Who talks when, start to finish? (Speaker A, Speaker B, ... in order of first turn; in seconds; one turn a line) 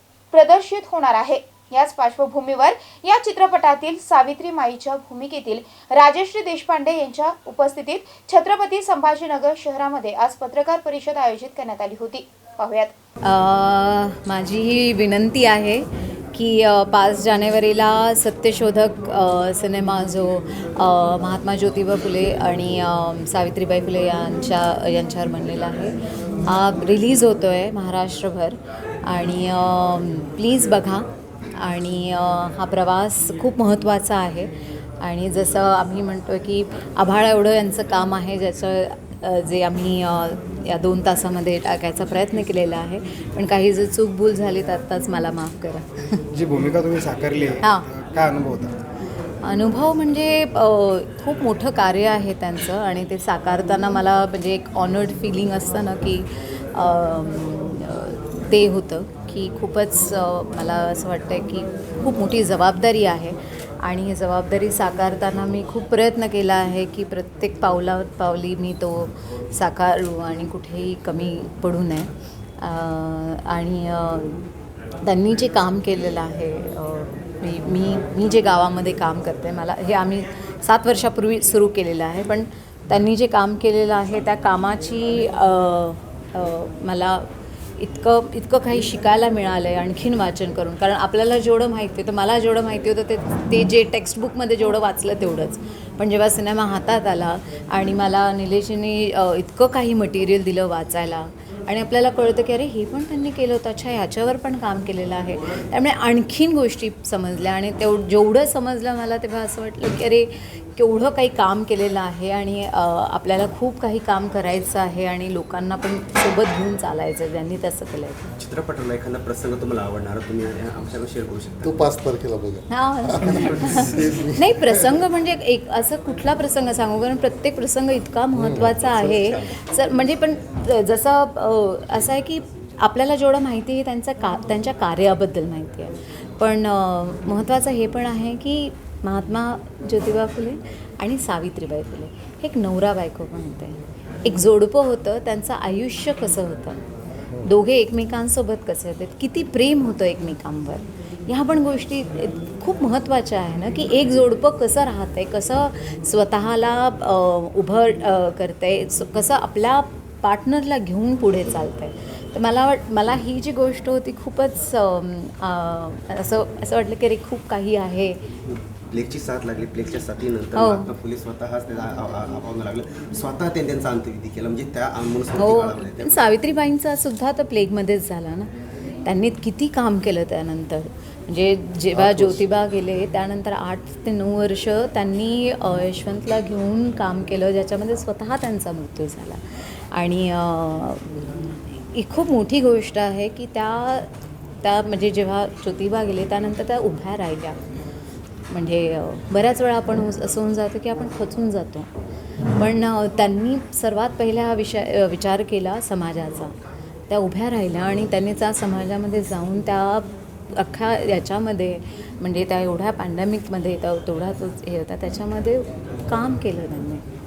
Speaker A: 0.3-12.9
Speaker B: 13.2-46.0
Speaker C: 46.3-48.7
Speaker B: 49.4-74.4
Speaker B: 75.0-87.3
Speaker B: 87.8-118.3
Speaker D: 118.4-121.8
Speaker E: 121.6-124.9
Speaker B: 122.7-146.8
Speaker E: 128.3-128.7
Speaker D: 128.5-129.6
Speaker B: 147.4-168.2
Speaker D: 168.5-176.3
Speaker B: 170.5-170.9
Speaker B: 175.4-178.5
Speaker B: 179.0-189.4
Speaker E: 181.9-182.3
Speaker B: 189.9-191.2
Speaker B: 191.9-194.1
Speaker B: 194.6-197.6
Speaker B: 198.5-201.9
Speaker B: 202.6-206.5
Speaker B: 207.1-217.0